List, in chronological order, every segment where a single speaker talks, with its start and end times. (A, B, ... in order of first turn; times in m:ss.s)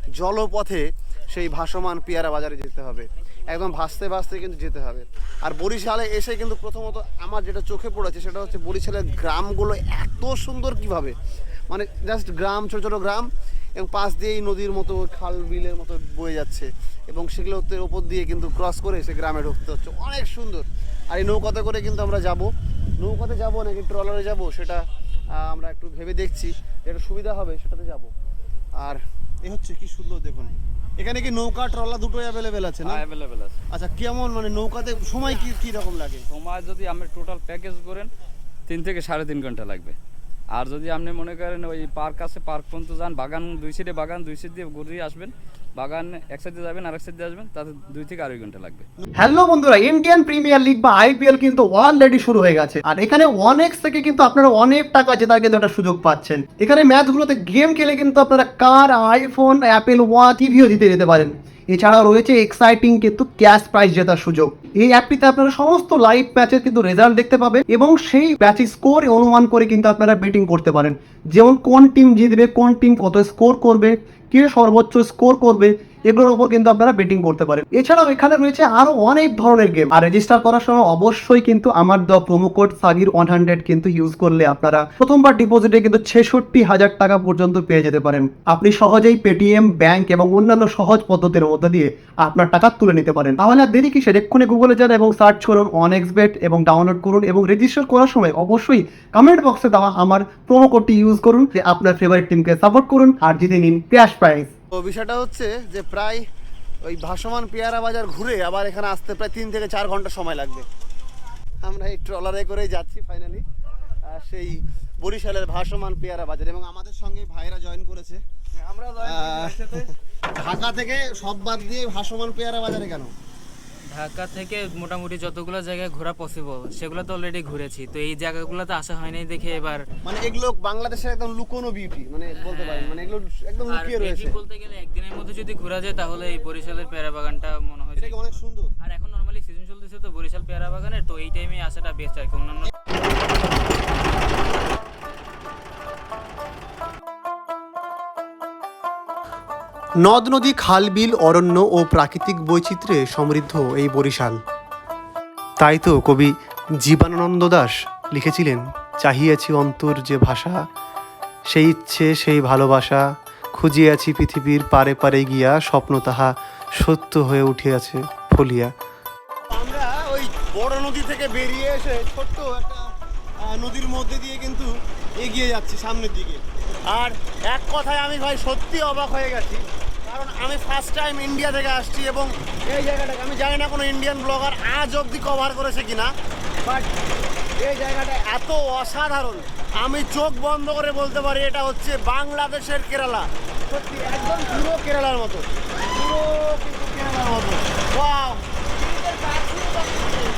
0:00.2-0:11.2 A
0:11.7-0:24.8 A
0:25.3-0:28.1 A
0:28.8-0:33.0 A
0:32.8-0:33.6 B
0:33.7-0:36.2 A
0:36.3-0:38.1 B
0:38.7-0:40.0 B
0:40.5-0:48.8 B
0:49.2-1:44.5 C
1:44.7-1:46.2 A
1:46.8-1:50.7 A
1:51.6-1:53.4 A
1:54.0-1:58.2 A
1:58.9-2:03.1 A
2:03.9-2:09.8 D
2:10.0-2:14.4 A
2:12.3-2:13.1 D
2:13.7-2:18.2 D
2:17.9-2:18.7 A
2:18.8-2:22.7 D
2:30.1-2:34.3 E
2:35.6-2:40.6 E
2:41.5-2:43.0 E
2:43.6-2:48.7 E
2:49.5-2:52.8 A
2:53.4-3:06.1 A
3:07.6-3:18.4 A
3:19.1-3:20.1 A